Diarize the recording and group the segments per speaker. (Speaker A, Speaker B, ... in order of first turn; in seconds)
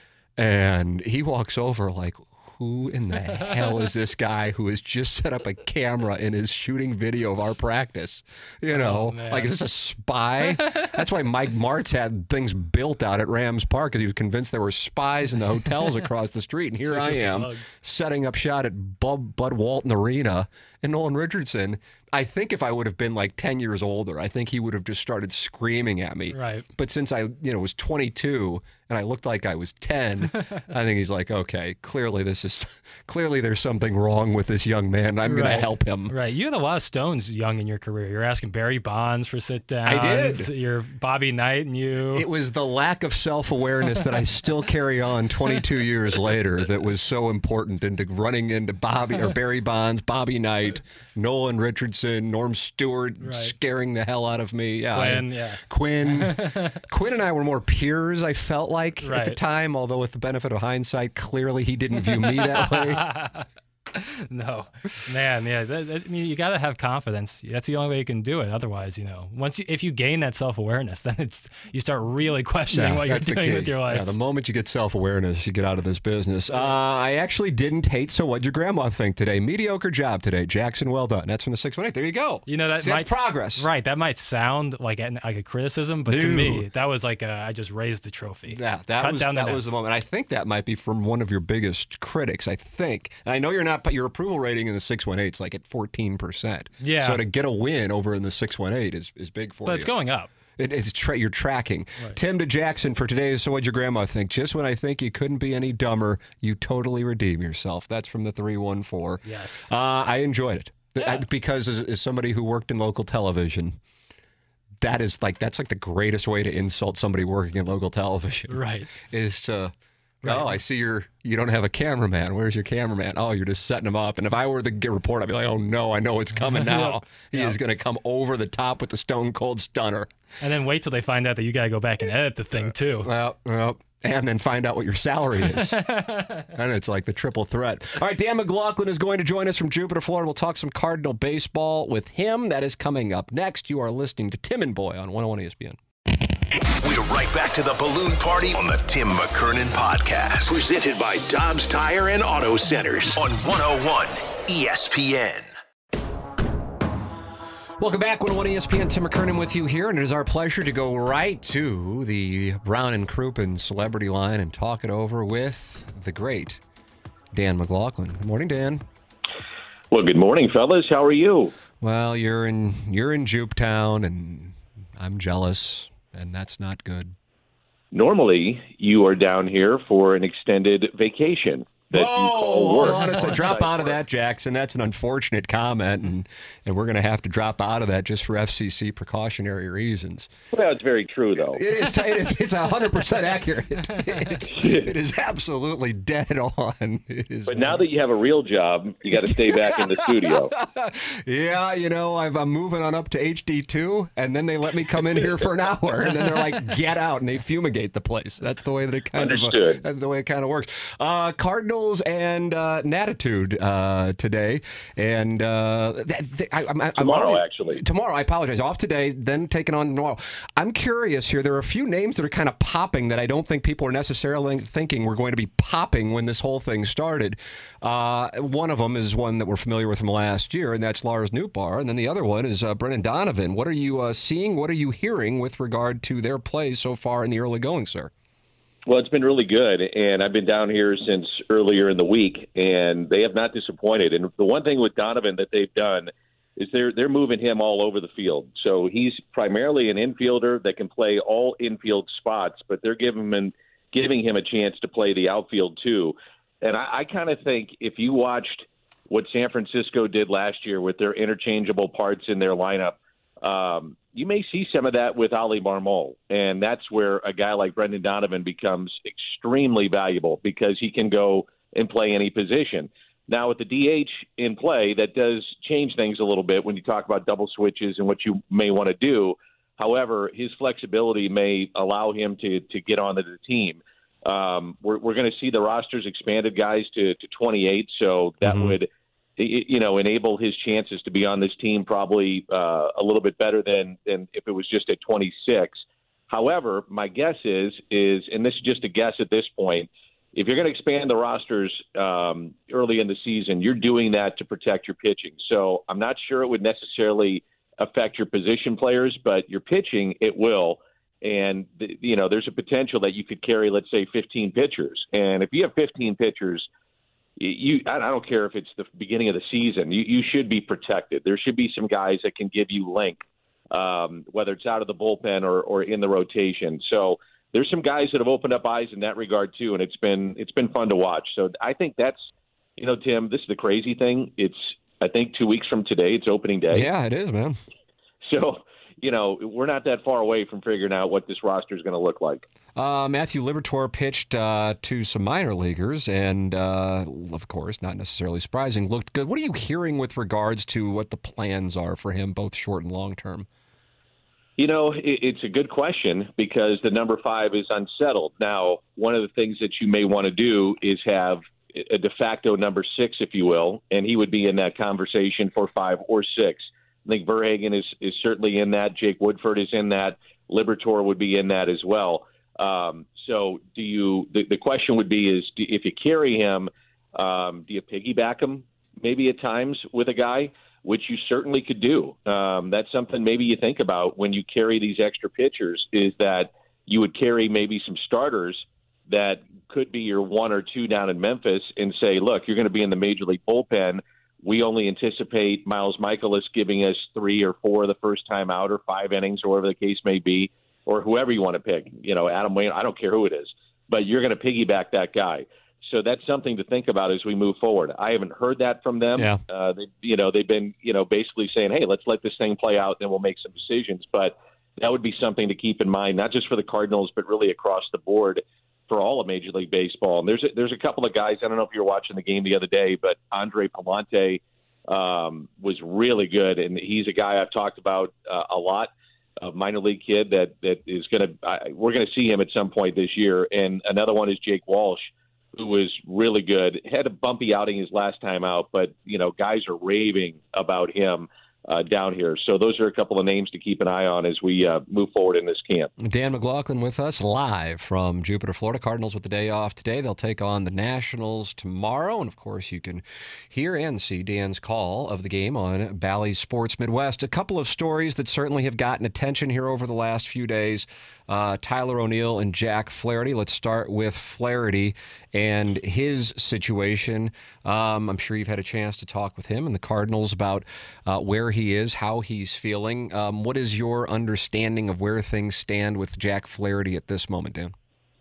Speaker A: 0.4-36.1, 39.9-40.5, 42.1-63.0, 72.7-83.7, 86.1-86.7, 88.5-99.9, 100.6-113.8, 114.8-130.1, 133.0-135.8, 136.5-145.8, 157.8-166.6, 167.3-168.8, 171.8-177.1, 181.9-190.3, 191.5-197.8, 199.1-238.1, 288.4-288.8, 336.7-337.6, 342.8-353.5, 446.0-477.7
Speaker B: 8.7-9.5, 16.8-17.7, 26.3-26.7, 35.3-42.3, 53.2-53.5, 54.9-56.8, 59.0-59.4, 62.4-74.1, 82.5-89.8, 96.8-97.2, 99.7-100.3, 109.3-109.7, 118.5-118.9, 120.2-120.6, 126.5-127.6, 130.4-133.1, 135.5-136.5
Speaker C: 146.7-155.5
Speaker D: 169.9-171.5, 177.9-183.9, 190.5-191.6, 194.6-194.9, 197.5-200.5, 209.2-209.8, 217.0-217.8, 238.9-316.7, 317.4-336.9, 338.2-342.4, 354.6-445.9